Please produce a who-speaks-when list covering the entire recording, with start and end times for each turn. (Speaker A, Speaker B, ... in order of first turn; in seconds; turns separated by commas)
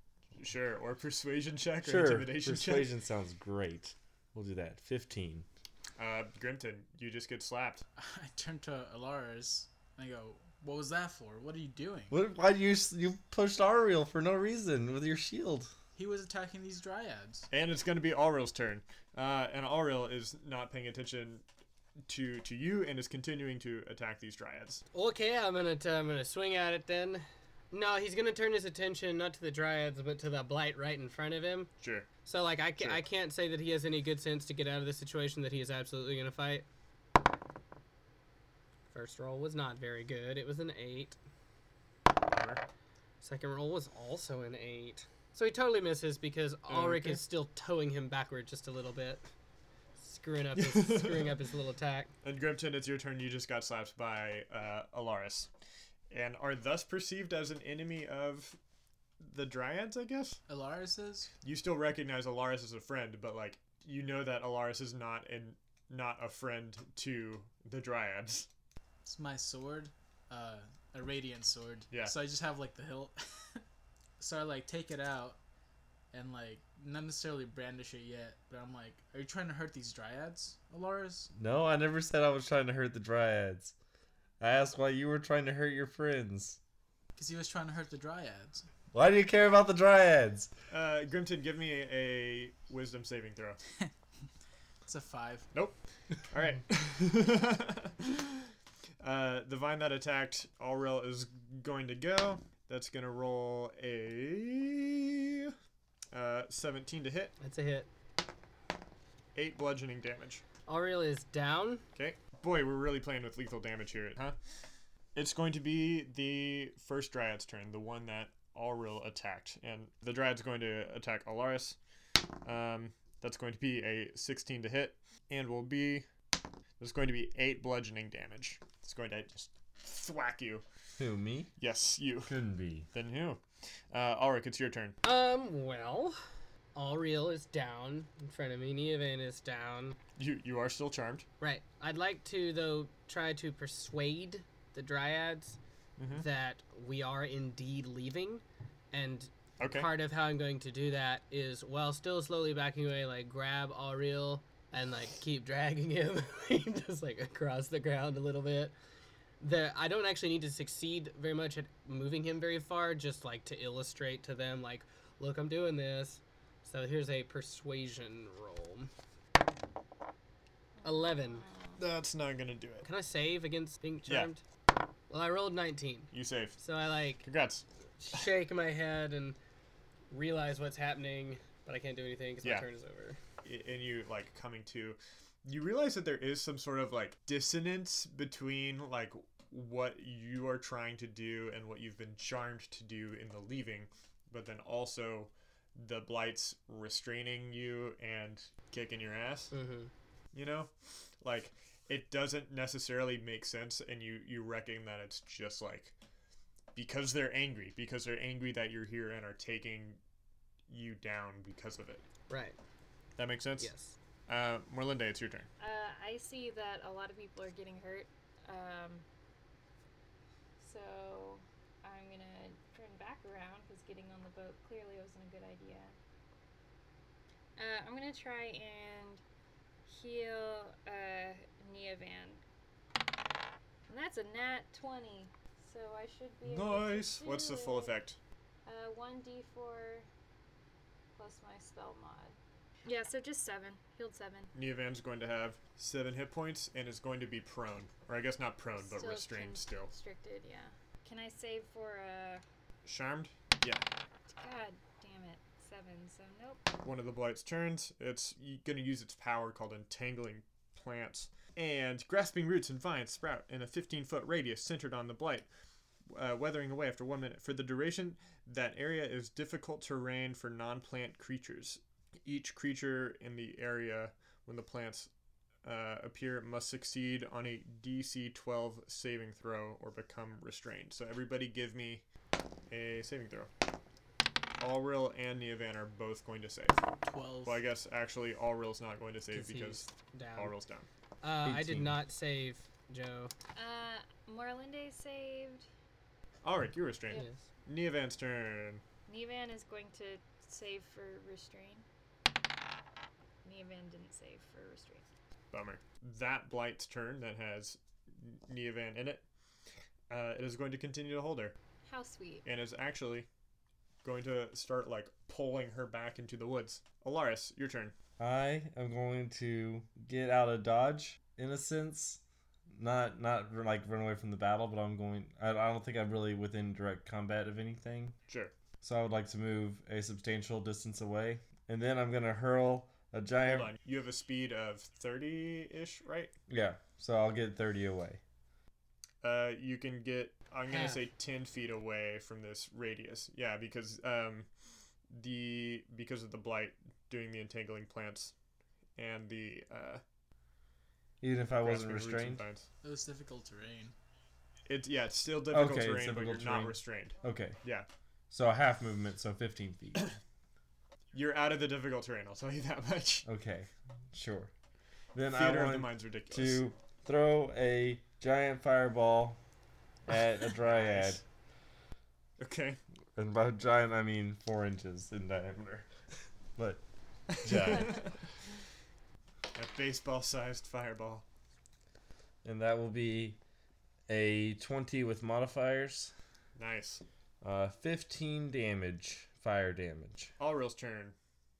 Speaker A: 0.3-2.9, Speaker B: 1.8-5.5, Speaker A: 6.0-7.8, Speaker C: 8.0-12.2, Speaker B: 12.1-15.7, Speaker C: 15.9-17.5, Speaker A: 17.5-21.4, Speaker A: 22.1-24.8, Speaker D: 24.9-31.7, Speaker A: 31.8-32.1, Speaker D: 32.2-36.6, Speaker D: 38.9-41.2, Speaker A: 42.3-42.6, Speaker D: 43.2-49.3, Speaker A: 46.7-47.2, Speaker D: 50.0-52.1, Speaker A: 50.6-51.3, Speaker A: 52.2-55.5, Speaker A: 56.1-58.6, Speaker A: 59.2-60.4, Speaker C: 60.5-61.3, Speaker A: 61.4-68.5, Speaker C: 69.0-73.6, Speaker A: 71.9-72.2, Speaker C: 74.2-75.4, Speaker C: 76.1-81.3, Speaker B: 81.3-83.7, Speaker B: 84.4-86.6, Speaker C: 87.2-88.7, Speaker B: 88.9-90.5, Speaker A: 90.7-93.6, Speaker C: 94.8-95.5, Speaker A: 95.5-98.5, Speaker A: 99.0-105.5, Speaker A: 106.1-107.3, Speaker D: 107.4-107.9, Speaker A: 109.3-110.4, Speaker D: 110.7-111.8, Speaker A: 111.9-114.4, Speaker A: 115.1-121.8, Speaker A: 122.4-126.1, Speaker A: 126.8-130.6, Speaker B: 131.0-131.5, Speaker A: 131.6-132.3, Speaker B: 132.2-132.9, Speaker A: 132.9-135.0, Speaker D: 135.0-136.2, Speaker D: 136.7-140.0, Speaker A: 140.2-141.2, Speaker D: 141.4-145.6, Speaker A: 146.0-146.2, Speaker D: 146.1-158.7, Speaker A: 149.6-149.9, Speaker D: 159.4-168.9, Speaker E: 170.8-171.8, Speaker D: 170.8-171.4, Speaker A: 171.8-172.9, Speaker D: 172.8-174.4, Speaker D: 175.1-177.2, Speaker A: 176.1-176.6, Speaker A: 177.2-177.6, Speaker D: 178.0-179.4, Speaker D: 180.1-183.2, Speaker A: 182.4-182.7, Speaker A: 183.4-199.5, Speaker D: 199.5-199.9, Speaker A: 200.3-205.9, Speaker A: 206.7-210.0, Speaker A: 210.7-212.0, Speaker D: 212.3-212.6, Speaker A: 213.2-213.7, Speaker D: 213.6-213.9, Speaker A: 214.3-215.5, Speaker E: 215.6-219.0, Speaker E: 220.6-225.9, Speaker E: 227.6-229.2, Speaker E: 229.9-232.4, Speaker E: 233.9-237.9, Speaker A: 236.4-238.2, Speaker E: 238.7-240.1, Speaker E: 241.2-244.5, Speaker A: 244.5-249.9, Speaker E: 248.8-252.4, Speaker A: 252.8-253.8, Speaker E: 254.3-256.8, Speaker A: 256.8-265.5, Speaker A: 266.1-275.1, Speaker A: 275.6-282.0, Speaker A: 282.7-283.5, Speaker A: 284.6-286.8, Speaker C: 287.0-287.6, Speaker A: 287.4-290.9, Speaker D: 289.3-290.5, Speaker D: 291.2-293.3, Speaker B: 291.4-292.0, Speaker E: 293.5-295.7, Speaker A: 296.4-298.8, Speaker D: 297.1-297.4, Speaker E: 299.1-301.8, Speaker E: 303.4-305.1, Speaker A: 305.5-309.2, Speaker A: 310.1-311.6, Speaker E: 311.9-312.4, Speaker A: 312.4-313.3, Speaker A: 314.0-317.9, Speaker B: 318.2-328.1, Speaker A: 328.3-328.5, Speaker B: 328.8-333.7, Speaker A: 333.4-336.3, Speaker B: 336.5-338.2, Speaker A: 339.2-344.5, Speaker D: 340.7-341.0, Speaker A: 345.1-348.3, Speaker A: 348.9-350.0, Speaker B: 351.2-352.5, Speaker A: 351.6-352.7, Speaker C: 352.8-353.9, Speaker A: 354.7-357.9, Speaker B: 355.5-357.6, Speaker B: 358.3-360.0, Speaker A: 361.1-363.2, Speaker B: 363.2-364.5, Speaker B: 365.1-369.4, Speaker A: 365.2-366.6, Speaker B: 370.1-371.2, Speaker A: 370.7-371.2, Speaker A: 372.4-372.8, Speaker B: 373.1-375.9, Speaker B: 376.6-376.8, Speaker A: 377.4-378.2, Speaker B: 377.4-377.9, Speaker A: 379.5-381.2, Speaker B: 382.4-383.4, Speaker B: 384.1-386.1, Speaker A: 386.6-387.0, Speaker B: 387.4-390.3, Speaker A: 390.4-391.1